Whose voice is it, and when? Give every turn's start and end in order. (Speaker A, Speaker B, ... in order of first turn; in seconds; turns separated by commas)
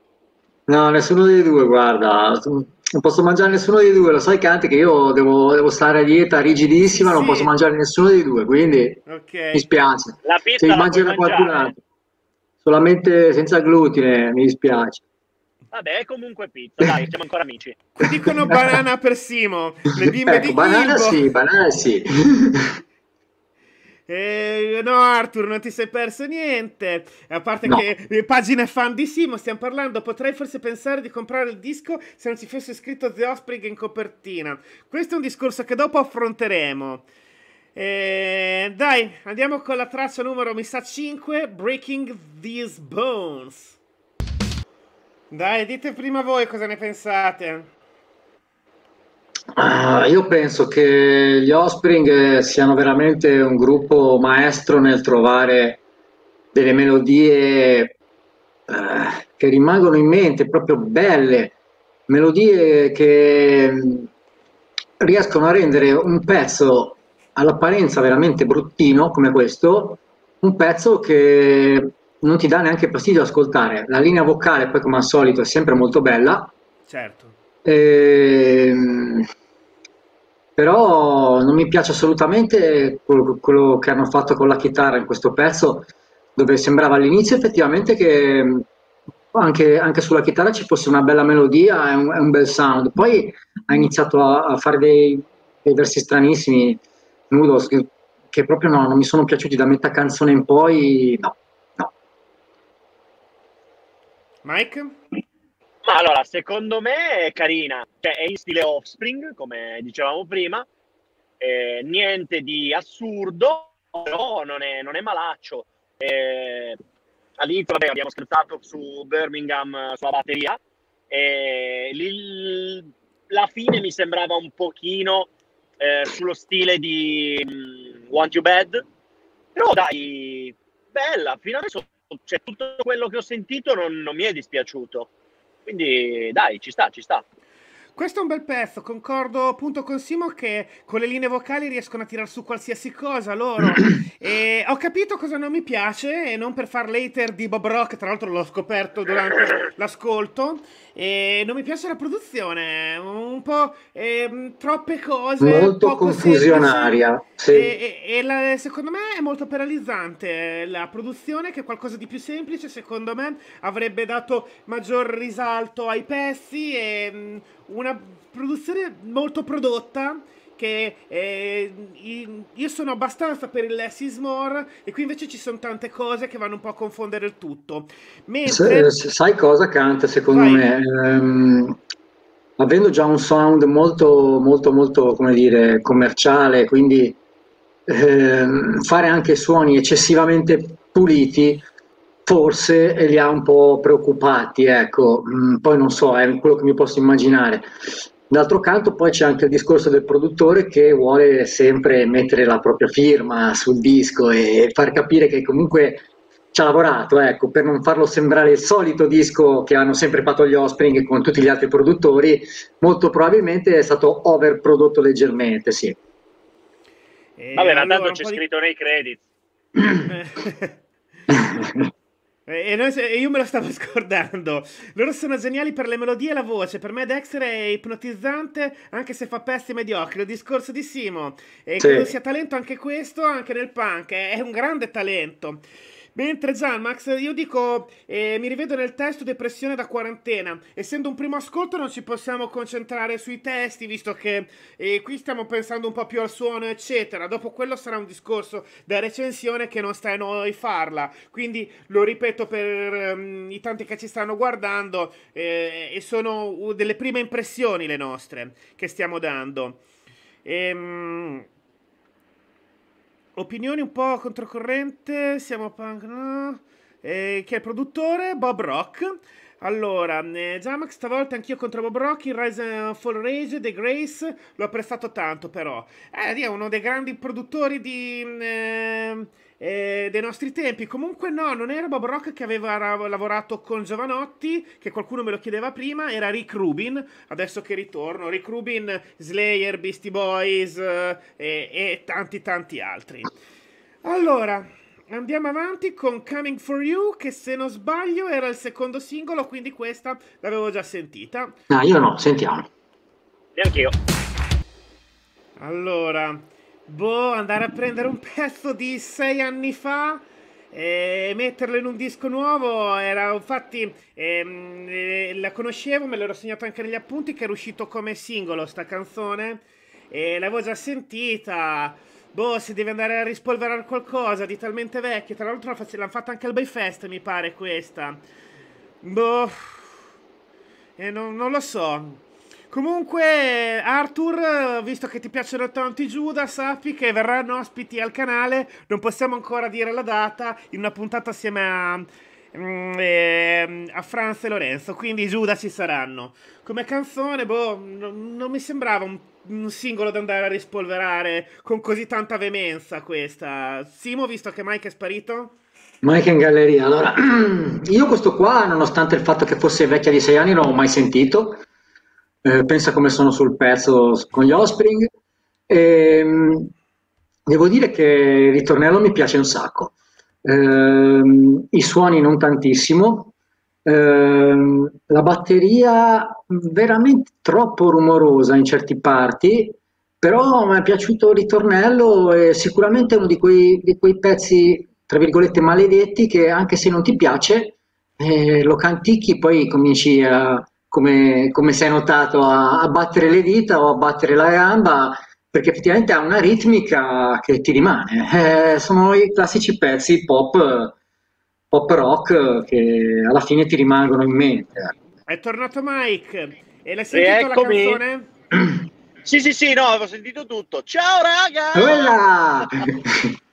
Speaker A: 0.7-9.0, Speaker B: 7.0-7.5, Speaker B: 9.1-9.7, Speaker A: 9.5-11.8, Speaker C: 10.2-11.7, Speaker A: 12.7-15.0, Speaker C: 15.7-17.8, Speaker B: 18.0-21.2, Speaker A: 18.0-18.8, Speaker A: 20.0-22.8, Speaker B: 24.1-37.1, Speaker B: 37.8-43.8, Speaker B: 45.3-47.7, Speaker A: 49.5-55.8, Speaker A: 56.5-57.9, Speaker A: 58.7-61.5, Speaker A: 62.1-64.1, Speaker A: 65.0-76.5, Speaker B: 76.9-77.4, Speaker A: 77.7-79.3, Speaker A: 80.6-88.7, Speaker A: 89.3-96.8, Speaker A: 97.3-101.9, Speaker B: 104.5-105.0, Speaker C: 105.8-110.7, Speaker C: 111.4-116.8, Speaker C: 117.4-120.6, Speaker C: 121.1-128.8, Speaker C: 129.6-135.1, Speaker C: 135.7-137.2, Speaker B: 138.0-178.9, Speaker A: 155.4-157.8, Speaker A: 178.5-181.8, Speaker B: 180.3-180.7, Speaker A: 182.6-187.2, Speaker A: 187.9-191.7, Speaker A: 192.3-216.0, Speaker B: 217.4-218.4, Speaker C: 217.6-219.2, Speaker B: 220.1-220.8, Speaker A: 221.3-221.9, Speaker B: 222.5-235.6, Speaker A: 231.8-232.1, Speaker B: 236.2-259.8, Speaker B: 260.4-261.5, Speaker B: 263.4-293.3, Speaker B: 294.0-301.6, Speaker A: 301.7-302.7, Speaker C: 303.6-303.9, Speaker B: 305.6-328.2, Speaker B: 329.0-329.9, Speaker B: 331.0-355.6, Speaker A: 356.0-361.6, Speaker A: 362.4-365.1, Speaker A: 365.7-366.7, Speaker A: 367.5-369.9, Speaker A: 370.4-373.3, Speaker A: 373.9-400.9, Speaker A: 401.7-404.9, Speaker B: 405.3-408.3, Speaker C: 407.1-408.0, Speaker C: 409.2-412.9, Speaker A: 411.7-413.4